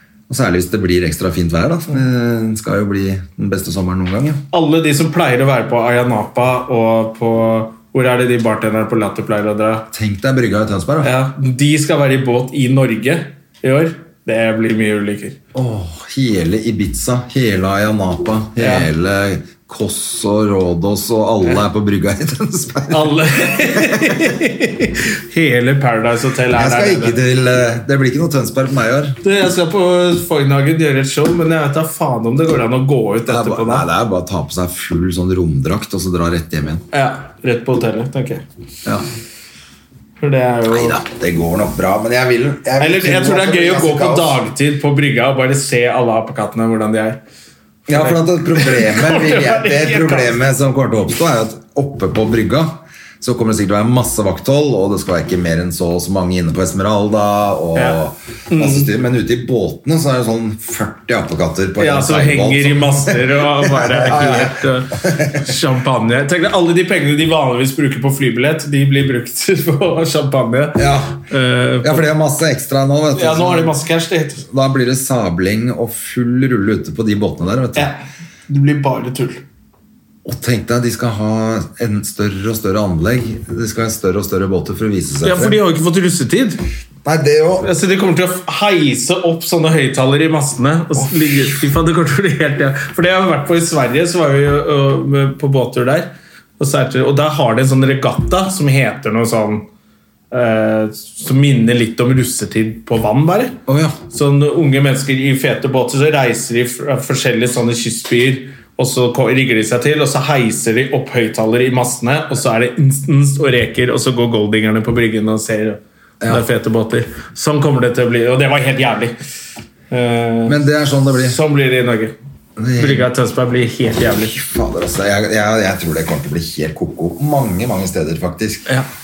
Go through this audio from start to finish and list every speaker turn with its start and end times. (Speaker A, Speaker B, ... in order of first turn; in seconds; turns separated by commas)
Speaker A: 0.3-4.4, Speaker B: 4.5-9.9, Speaker A: 9.9-11.1, Speaker B: 11.0-15.4, Speaker A: 15.5-24.2, Speaker B: 18.6-18.9, Speaker B: 22.9-27.2, Speaker A: 26.5-29.2, Speaker B: 29.2-33.9, Speaker A: 33.2-36.8, Speaker B: 36.9-38.4, Speaker B: 40.2-41.0, Speaker A: 40.7-44.4, Speaker B: 42.8-47.2, Speaker A: 47.9-65.4, Speaker B: 47.9-50.4, Speaker B: 58.5-58.9, Speaker B: 61.8-72.0, Speaker A: 70.8-71.2, Speaker A: 71.8-73.7, Speaker B: 73.1-74.5, Speaker A: 74.5-77.9, Speaker B: 77.8-79.4, Speaker A: 80.2-85.6, Speaker B: 85.2-86.6, Speaker A: 87.0-87.7, Speaker B: 87.6-99.7, Speaker B: 100.3-103.6, Speaker A: 103.7-104.0, Speaker B: 104.1-119.2, Speaker A: 116.2-116.5, Speaker B: 119.9-120.6, Speaker A: 120.5-121.4, Speaker B: 121.2-122.1, Speaker A: 122.6-123.1, Speaker B: 122.8-124.3, Speaker A: 124.2-128.7